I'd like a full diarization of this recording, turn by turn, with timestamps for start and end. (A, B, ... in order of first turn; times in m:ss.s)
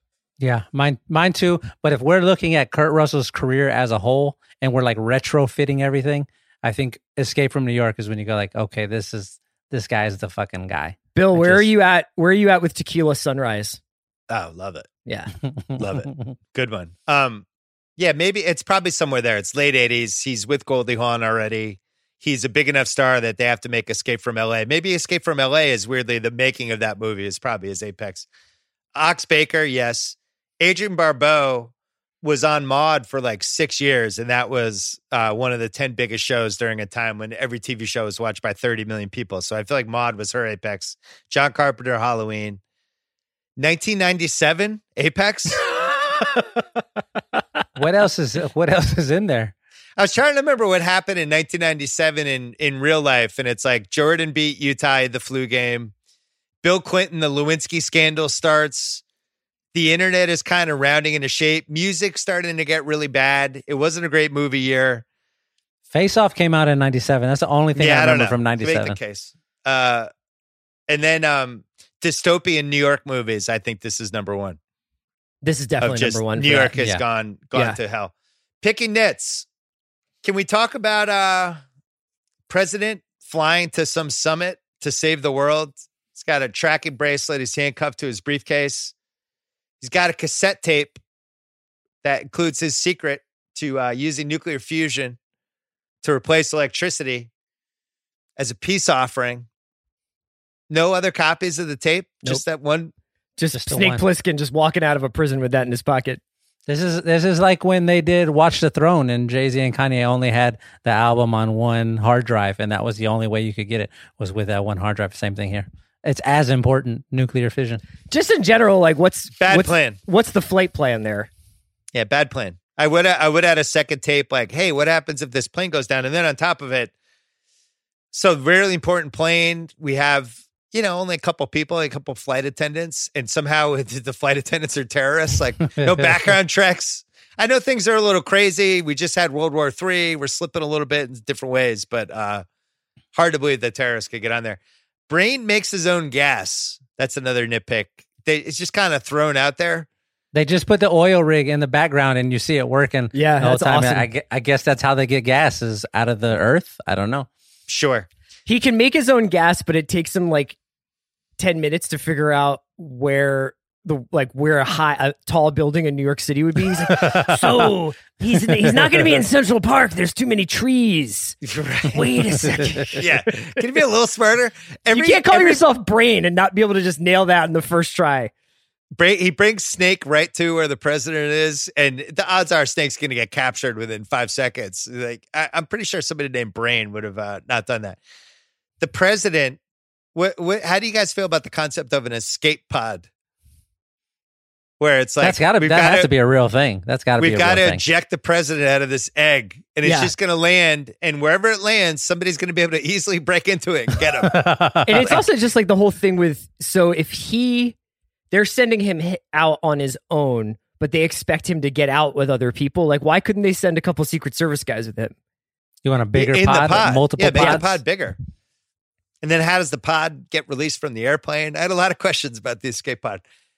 0:00.4-0:11.7 A
0:11.2-0:13.8 B
0:14.3-0:14.9 C
0:15.1-0:15.3 B
0:15.8-0:16.3 A
0:15.8-0:17.4 C
0:18.0-0:28.3 C
0:29.0-0:31.7 C
0:32.2-0:42.6 C
0:43.6-0:45.6 C
0:47.8-0:49.5 A
0:50.0-0:55.9 C
0:56.6-0:59.0 C
0:59.7-1:05.0 C
1:05.9-1:09.0 A
1:07.8-1:10.1 C
1:10.9-1:14.6 C
1:15.4-1:16.7 B
1:15.8-1:19.5 C
1:20.2-1:21.6 C
1:22.5-1:28.9 C
1:29.8-1:31.0 C
1:32.0-1:35.2 C
1:36.0-1:37.3 C
1:38.4-1:39.5 C
1:40.7-1:42.9 C
1:43.4-1:46.2 B
1:43.5-1:44.1 A
1:46.7-1:57.8 A
1:58.1-2:01.3 B
1:59.4-2:00.0 C
2:01.9-2:06.9 C
2:08.1-2:22.4 C
2:23.2-2:29.9 C
2:30.3-2:37.3 A
2:33.1-2:34.1 B
2:37.7-2:38.1 C
2:38.5-2:40.6 B
2:41.4-2:51.4 B
2:46.9-2:47.2 A
2:51.5-2:52.0 C
2:51.9-2:53.0 B
2:52.9-2:55.6 C
2:54.9-2:58.3 B
2:59.0-3:08.0 C
3:08.8-3:09.6 C
3:10.2-3:13.1 C
3:14.8-3:16.1 C
3:15.2-3:17.8 A
3:17.2-3:24.4 C
3:19.8-3:20.1 B
3:24.3-3:25.2 A
3:24.9-3:27.8 B
3:28.3-3:35.2 B
3:35.8-3:37.8 A
3:36.2-3:38.2 C
3:37.3-3:37.6 B
3:39.2-3:43.2 C